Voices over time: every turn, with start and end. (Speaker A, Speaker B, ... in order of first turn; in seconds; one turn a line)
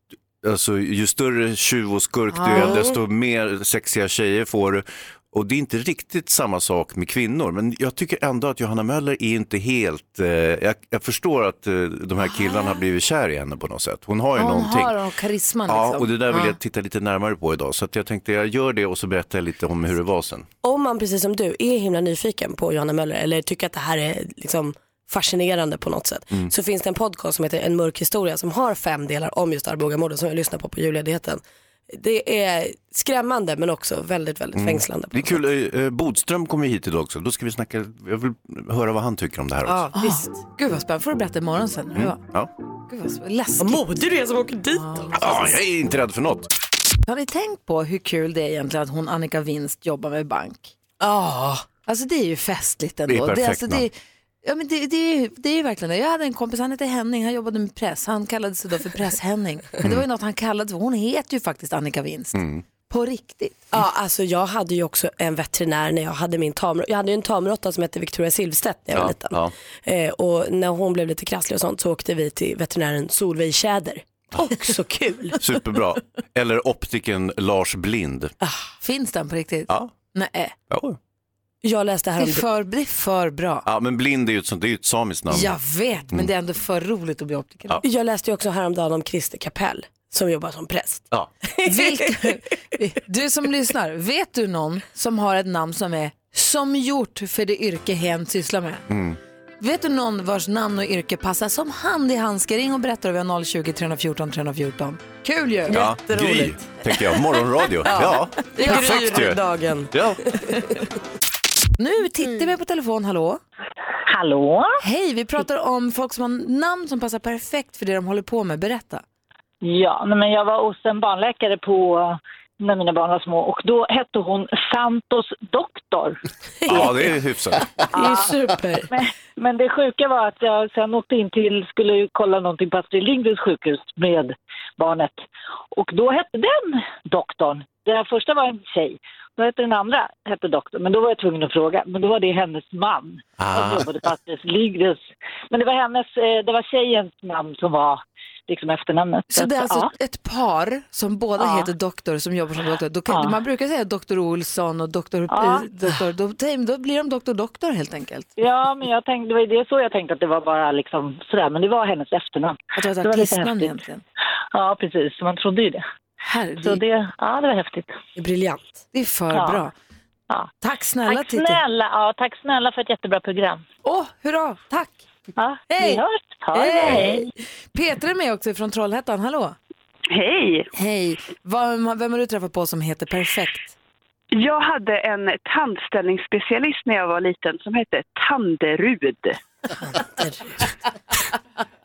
Speaker A: 0.4-14.9
Speaker B: 2.3-2.8
Speaker C: 2.5-2.9
Speaker B: 12.3-12.8
Speaker B: 14.4-16.6
Speaker A: 15.7-20.5
Speaker C: 20.6-35.4
Speaker A: 34.5-39.9
Speaker C: 39.6-40.3
Speaker B: 39.9-42.2
Speaker A: 42.0-42.5
Speaker B: 42.9-43.8
Speaker C: 43.6-45.5
Speaker B: 44.8-45.1
Speaker A: 45.1-46.5
Speaker B: 47.1-50.7
Speaker C: 51.0-51.6
Speaker B: 51.9-63.7
Speaker A: 53.1-53.8
Speaker A: 62.3-62.6
Speaker C: 63.7-75.4
Speaker A: 68.9-69.5
Speaker A: 75.4-78.3
Speaker B: 78.8-80.5
Speaker A: 80.7-81.0
Speaker C: 81.6-82.4
Speaker B: 82.2-83.7
Speaker A: 83.6-85.5
Speaker B: 85.3-87.8
Speaker C: 87.8-92.1
Speaker B: 91.6-98.8
Speaker A: 98.9-99.2
Speaker B: 99.6-105.8
Speaker C: 105.7-106.6
Speaker A: 105.7-109.4
Speaker C: 107.8-110.6
Speaker B: 108.6-109.0
Speaker A: 109.9-110.2
Speaker B: 111.8-113.4
Speaker D: 114.1-114.8
Speaker B: 114.8-119.0
Speaker D: 119.6-126.2
Speaker C: 126.6-127.1
Speaker A: 126.7-127.7
Speaker D: 127.9-128.3
Speaker C: 127.9-128.9
Speaker D: 128.9-135.2
Speaker D: 135.7-149.9
Speaker A: 143.4-144.0
Speaker B: 149.3-158.3
Speaker D: 151.4-151.7
Speaker D: 153.1-153.4
Speaker D: 155.3-155.7
Speaker D: 158.4-163.8
Speaker B: 162.7-164.0
Speaker D: 164.5-165.8
Speaker B: 166.2-166.8
Speaker D: 166.6-167.9
Speaker C: 168.2-168.7
Speaker B: 168.9-169.7
Speaker D: 169.3-169.7
Speaker B: 170.6-171.6
Speaker D: 171.0-173.6
Speaker B: 173.8-175.0
Speaker D: 175.4-177.2
Speaker B: 175.7-179.6
Speaker E: 180.1-180.7
Speaker B: 180.7-183.7
Speaker E: 184.3-189.4
Speaker C: 189.8-190.7